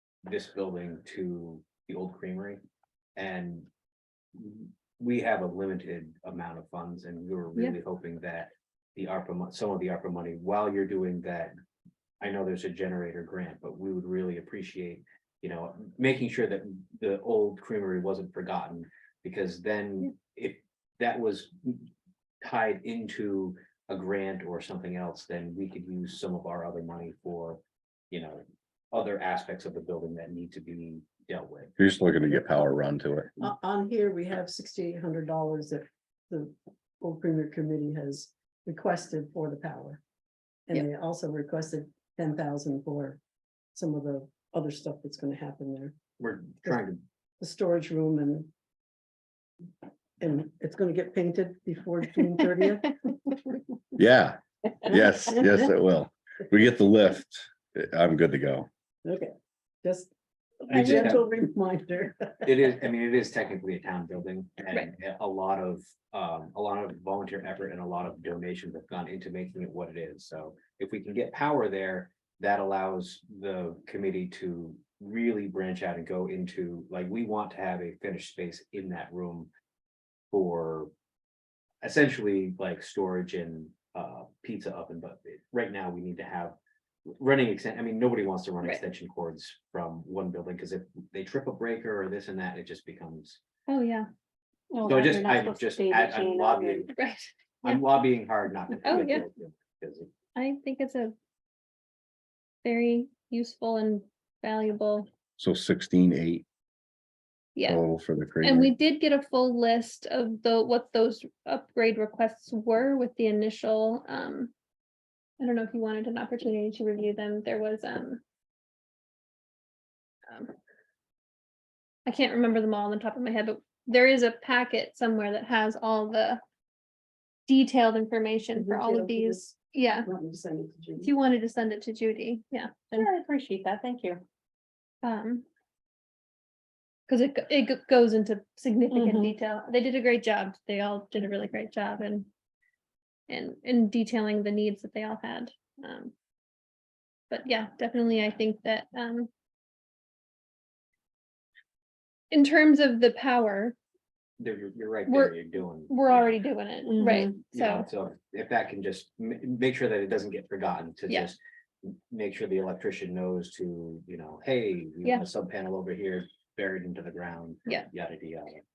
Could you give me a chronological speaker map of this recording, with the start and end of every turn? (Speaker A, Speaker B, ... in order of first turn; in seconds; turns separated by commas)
Speaker A: 0.2-2.6, Speaker A: 3.1-3.7, Speaker A: 4.4-11.5, Speaker A: 12.2-21.9, Speaker A: 22.4-31.7, Speaker B: 31.8-33.3, Speaker C: 33.4-40.0, Speaker C: 40.7-43.2, Speaker C: 43.7-46.0, Speaker A: 46.2-47.0, Speaker C: 47.4-48.5, Speaker C: 50.2-53.6, Speaker B: 54.0-58.7, Speaker C: 54.9-55.7, Speaker C: 59.0-59.3, Speaker C: 59.8-60.1, Speaker C: 60.6-62.5, Speaker A: 60.7-61.3, Speaker A: 62.4-79.5, Speaker A: 80.3-80.9, Speaker A: 81.8-86.6, Speaker A: 87.2-93.4, Speaker D: 93.7-94.1, Speaker E: 94.7-96.9, Speaker A: 94.8-96.9, Speaker D: 96.9-97.8, Speaker A: 97.6-100.1, Speaker D: 98.8-99.2, Speaker D: 100.4-101.1, Speaker D: 102.6-105.1, Speaker B: 105.4-106.4, Speaker D: 107.5-107.8, Speaker B: 107.6-108.7, Speaker D: 108.4-114.5, Speaker D: 115.4-118.2, Speaker D: 120.3-120.5, Speaker D: 122.1-126.4, Speaker D: 127.5-130.1, Speaker C: 128.5-131.1, Speaker D: 131.0-133.1, Speaker E: 132.9-134.2, Speaker D: 135.0-135.4, Speaker D: 137.1-142.3, Speaker E: 138.9-139.3, Speaker D: 143.3-146.1, Speaker D: 147.3-149.3, Speaker D: 152.3-153.8, Speaker A: 154.4-156.3, Speaker D: 155.1-155.4, Speaker D: 155.9-157.9, Speaker E: 156.8-157.3, Speaker A: 157.5-168.6